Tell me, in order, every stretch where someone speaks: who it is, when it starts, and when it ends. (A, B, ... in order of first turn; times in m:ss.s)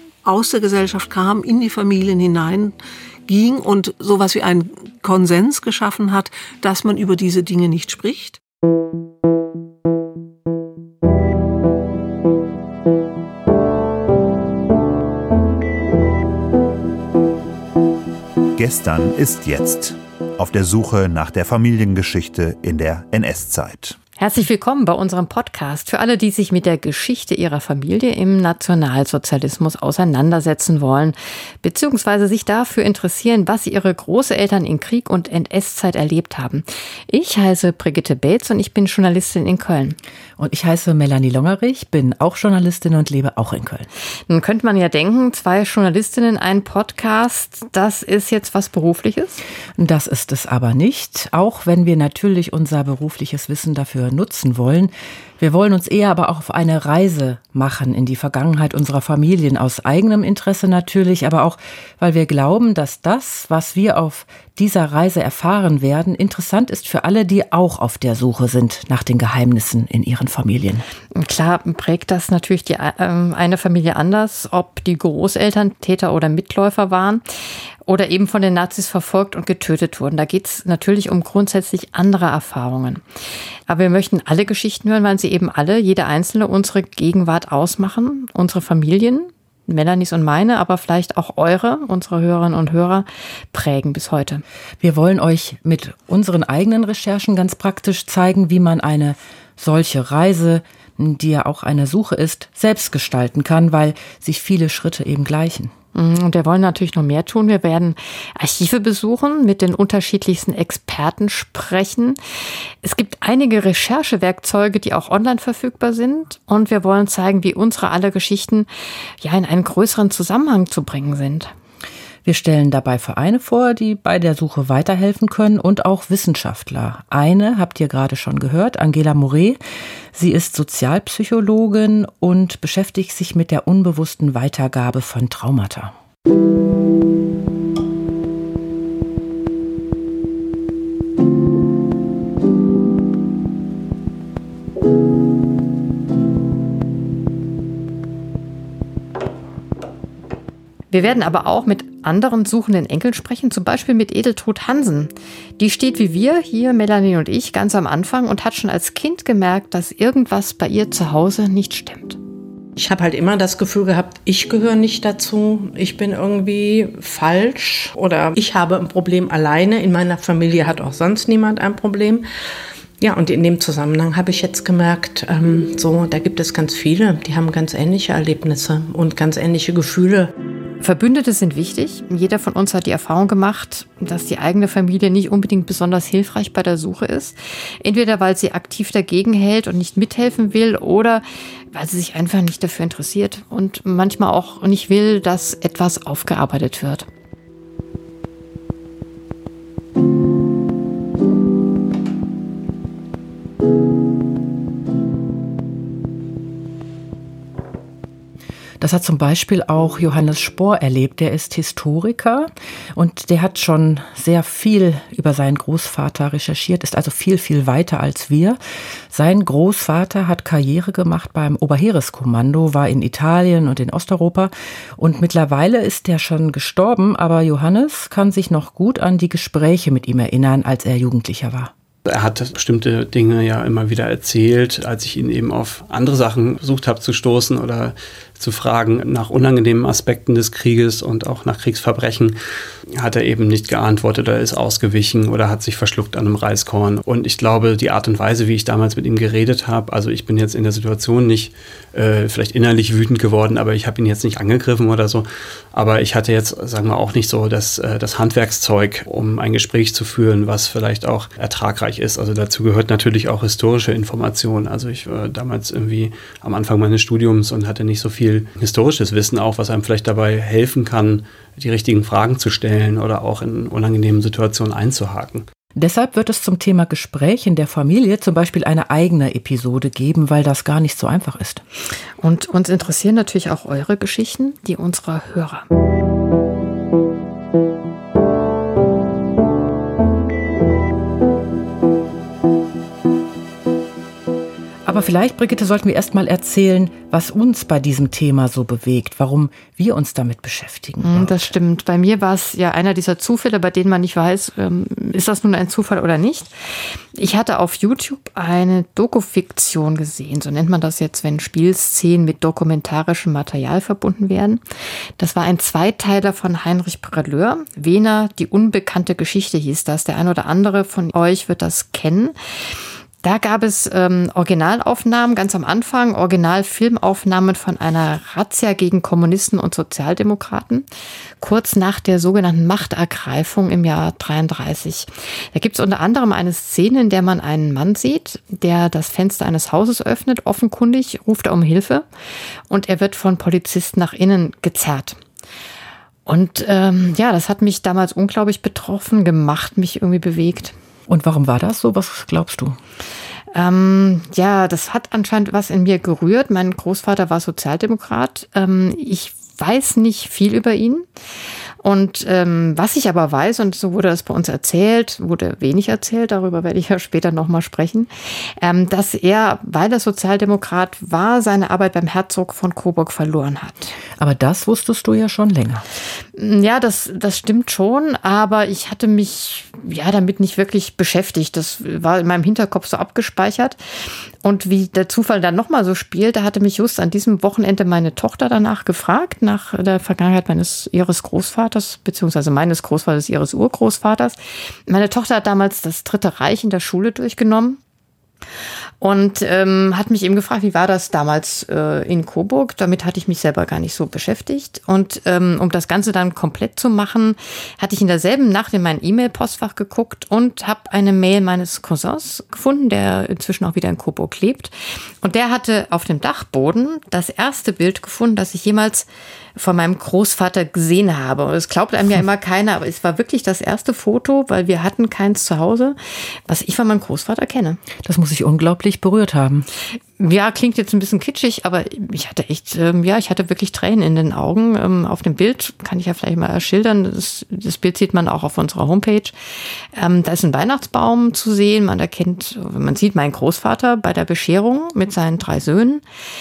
0:00.2-0:02.8 A
0:03.3-0:08.4 A
0:18.6-0:24.0 B
0:24.2-0:40.0 C
0:40.4-0:43.9 D
0:44.3-0:49.4 C
0:49.8-1:10.9 D
1:11.1-1:17.2 C
1:17.9-1:23.0 C
1:23.7-1:34.4 C
1:34.8-1:45.7 D
1:46.0-1:52.2 C
1:52.8-1:58.7 C
1:59.2-2:01.5 C
2:02.2-2:09.6 D
2:10.1-2:16.0 D
2:30.9-2:42.2 C
2:42.8-2:52.2 E
2:53.0-3:00.3 E
3:00.8-3:17.1 C
3:28.8-3:38.6 D
3:39.1-3:51.7 D
3:52.1-4:02.4 F
4:02.9-4:35.5 F
4:35.8-4:41.6 D
4:42.2-4:45.6 C
4:54.9-5:01.5 D
5:01.0-5:14.6 C
5:15.2-5:22.4 C
5:23.2-5:30.9 C
5:31.4-5:42.1 C
5:42.7-5:45.2 C
5:46.3-5:50.7 C
5:51.1-5:52.8 D
5:53.5-6:01.1 C
6:01.8-6:14.0 C
6:14.2-6:15.8 D
6:16.4-6:37.8 C
6:39.0-7:07.8 C
7:08.0-7:09.7 D
7:10.2-7:19.4 C
7:19.9-7:26.0 C